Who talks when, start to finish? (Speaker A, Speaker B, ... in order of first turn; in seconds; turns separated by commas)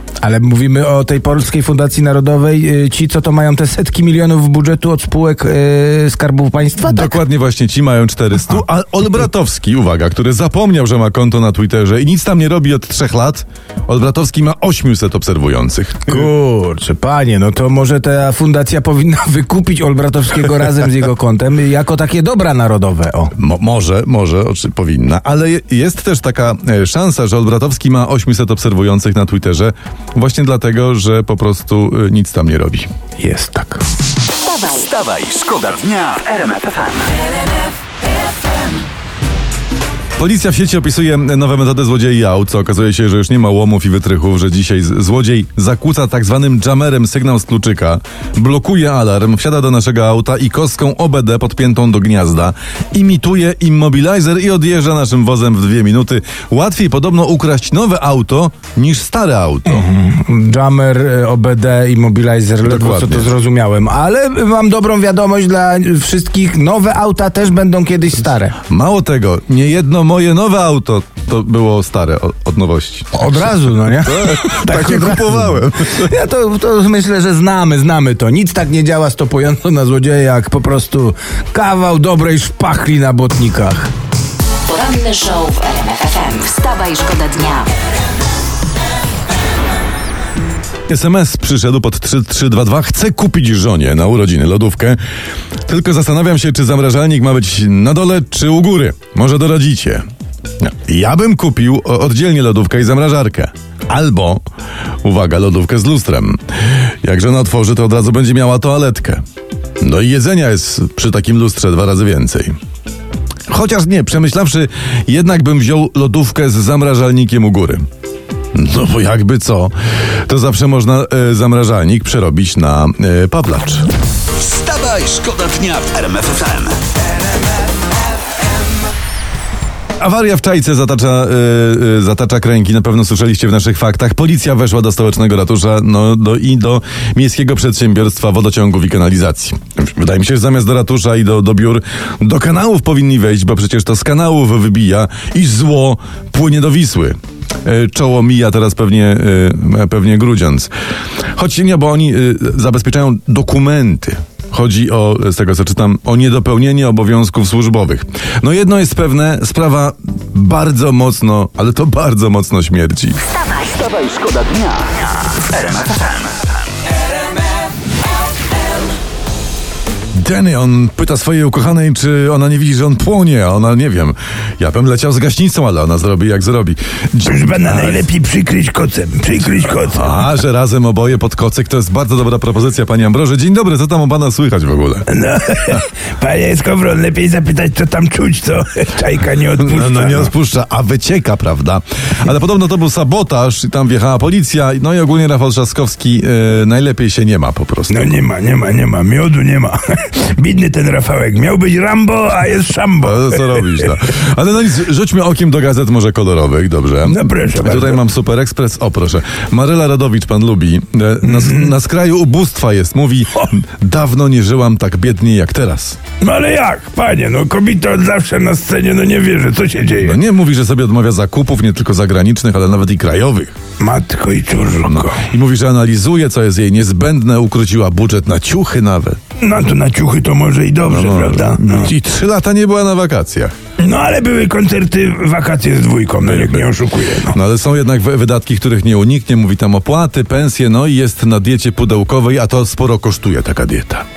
Speaker A: 0.2-7.2, Speaker B: 6.8-16.3, Speaker A: 16.1-23.3, Speaker B: 23.4-32.9, Speaker A: 33.2-33.8, Speaker C: 34.4-34.8, Speaker D: 34.7-37.1, Speaker B: 40.2-59.9, Speaker A: 59.6-68.6, Speaker B: 62.6-63.3, Speaker B: 68.7-76.1, Speaker A: 73.1-83.9, Speaker C: 84.7-87.7, Speaker B: 90.9-95.0, Speaker B: 95.7-100.0, Speaker B: 100.6-104.4, Speaker B: 105.0-109.2, Speaker B: 109.8-112.5, Speaker B: 113.5-117.8, Speaker B: 118.5-119.7, Speaker B: 120.2-123.9, Speaker D: 124.3-126.8, Speaker B: 130.0-150.7, Speaker B: 151.3-163.2, Speaker C: 163.3-163.7, Speaker D: 163.6-166.5, Speaker B: 170.1-178.1, Speaker A: 177.3-180.0, Speaker B: 179.4-185.1, Speaker A: 185.2-190.2, Speaker B: 189.6-198.2, Speaker A: 197.9-203.1, Speaker B: 203.0-216.0, Speaker A: 207.1-207.9, Speaker A: 216.2-220.1, Speaker B: 219.9-223.5, Speaker A: 223.8-225.1, Speaker B: 224.8-229.2, Speaker A: 229.4-231.8, Speaker B: 230.8-233.5, Speaker A: 233.8-237.3, Speaker B: 236.2-244.0